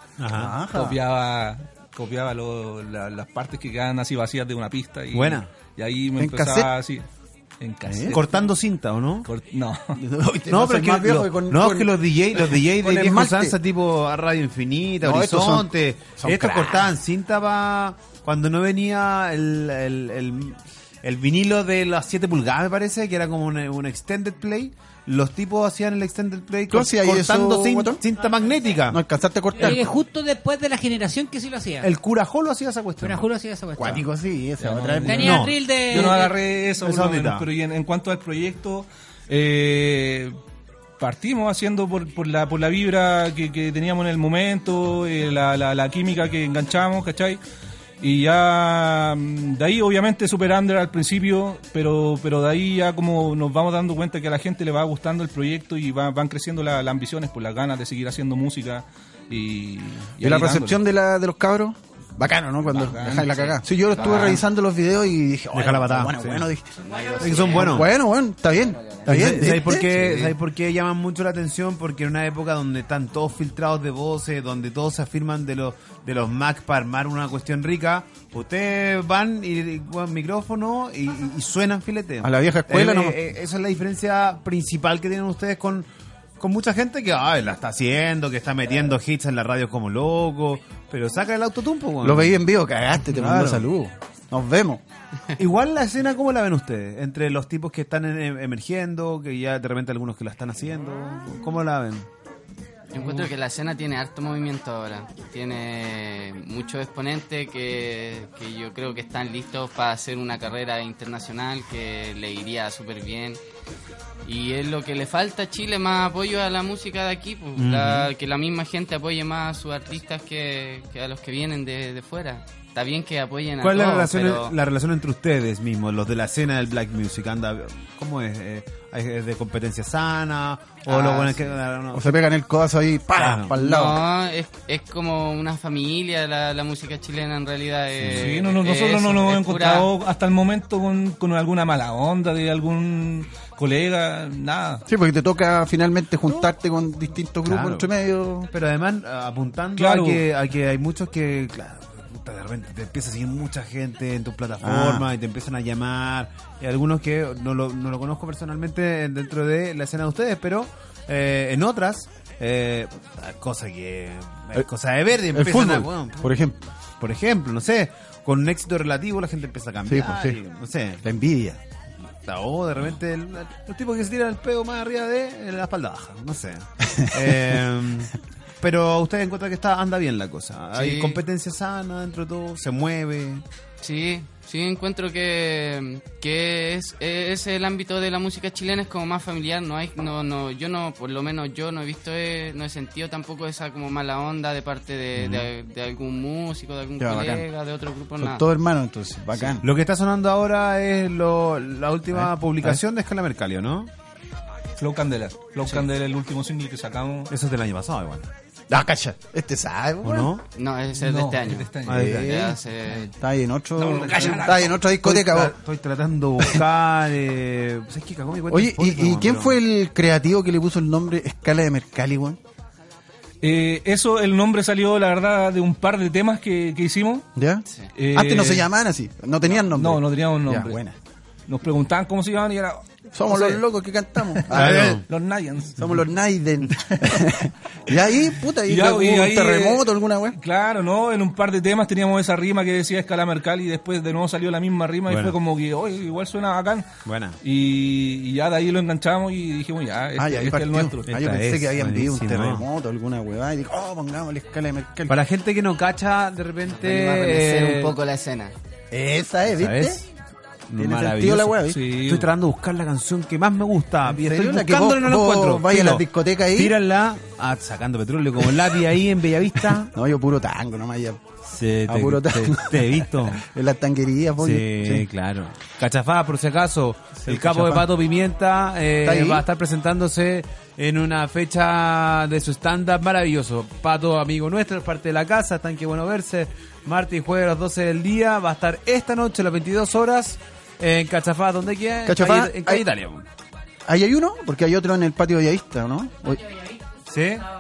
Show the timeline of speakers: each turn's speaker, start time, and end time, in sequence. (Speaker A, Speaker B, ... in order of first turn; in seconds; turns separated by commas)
Speaker A: 0.2-0.6, Speaker B: 0.3-1.0, Speaker C: 0.7-7.1, Speaker A: 5.1-5.5, Speaker B: 6.2-6.7, Speaker C: 7.6-8.4, Speaker B: 7.9-8.2, Speaker A: 8.1-9.3, Speaker C: 9.2-10.0, Speaker B: 10.0-13.6, Speaker A: 10.5-29.0, Speaker B: 15.0-16.9, Speaker B: 26.7-28.0, Speaker B: 28.9-29.9, Speaker D: 29.6-31.9, Speaker A: 31.8-33.2, Speaker D: 33.0-34.0, Speaker B: 33.8-35.4, Speaker C: 34.6-40.4, Speaker D: 35.1-36.3, Speaker A: 35.1-36.1, Speaker A: 36.8-37.5, Speaker C: 41.0-47.4, Speaker C: 48.0-60.8, Speaker B: 60.2-70.3, Speaker C: 62.7-64.4, Speaker E: 64.0-64.4, Speaker A: 65.5-66.5, Speaker E: 66.8-67.6, Speaker A: 67.2-67.9, Speaker A: 69.0-85.9, Speaker B: 82.2-83.2, Speaker A: 86.4-92.4, Speaker B: 92.0-94.8, Speaker A: 93.0-93.7, Speaker A: 95.4-102.1, Speaker E: 102.9-113.4, Speaker E: 114.2-124.6, Speaker A: 117.6-118.1, Speaker A: 123.6-132.2, Speaker B: 130.9-131.4, Speaker B: 131.9-134.0, Speaker A: 133.2-133.5, Speaker E: 133.6-139.9, Speaker A: 138.0-138.3, Speaker C: 138.1-144.8, Speaker B: 144.9-148.5, Speaker A: 147.5-147.9, Speaker A: 148.5-166.4, Speaker C: 149.8-150.2, Speaker B: 154.6-155.1, Speaker B: 165.3-166.6, Speaker A: 167.0-171.0, Speaker B: 169.9-170.4, Speaker B: 171.0-171.6, Speaker A: 172.2-183.4, Speaker B: 176.9-177.4, Speaker E: 180.8-181.2, Speaker E: 183.8-198.4, Speaker A: 195.2-195.5, Speaker B: 197.0-197.4, Speaker B: 198.2-199.7, Speaker A: 199.6-203.9, Speaker B: 202.1-202.8, Speaker C: 204.8-207.3, Speaker A: 207.3-208.3, Speaker B: 208.7-210.3, Speaker A: 210.0-210.4, Speaker E: 210.6-213.1, Speaker C: 211.0-212.1, Speaker A: 211.8-212.6, Speaker B: 211.9-212.6, Speaker B: 213.2-215.5, Speaker C: 213.8-214.8, Speaker A: 215.0-219.6, Speaker B: 218.5-222.4, Speaker C: 223.4-227.3, Speaker B: 227.4-230.9, Speaker C: 228.0-228.7, Speaker C: 229.7-230.8, Speaker C: 231.5-233.6, Speaker B: 233.1-235.1, Speaker C: 234.3-235.9, Speaker A: 234.5-235.1, Speaker B: 235.8-240.4, Speaker C: 238.7-246.9, Speaker A: 245.1-245.4, Speaker A: 247.1-247.4, Speaker C: 247.4-251.1, Speaker B: 250.2-255.2, Speaker A: 251.1-252.7, Speaker A: 255.1-257.9, Speaker E: 256.7-258.5, Speaker B: 258.9-260.0, Speaker A: 259.5-260.1, Speaker A: 260.7-269.9, Speaker B: 260.8-261.8, Speaker C: 261.7-262.3, Speaker B: 264.1-266.7, Speaker B: 269.8-271.2, Speaker A: 271.4-273.4, Speaker B: 271.9-275.1, Speaker A: 274.4-293.3, Speaker B: 277.2-277.9, Speaker B: 279.0-279.4, Speaker B: 292.1-292.8, Speaker B: 293.9-296.4, Speaker A: 297.1-297.5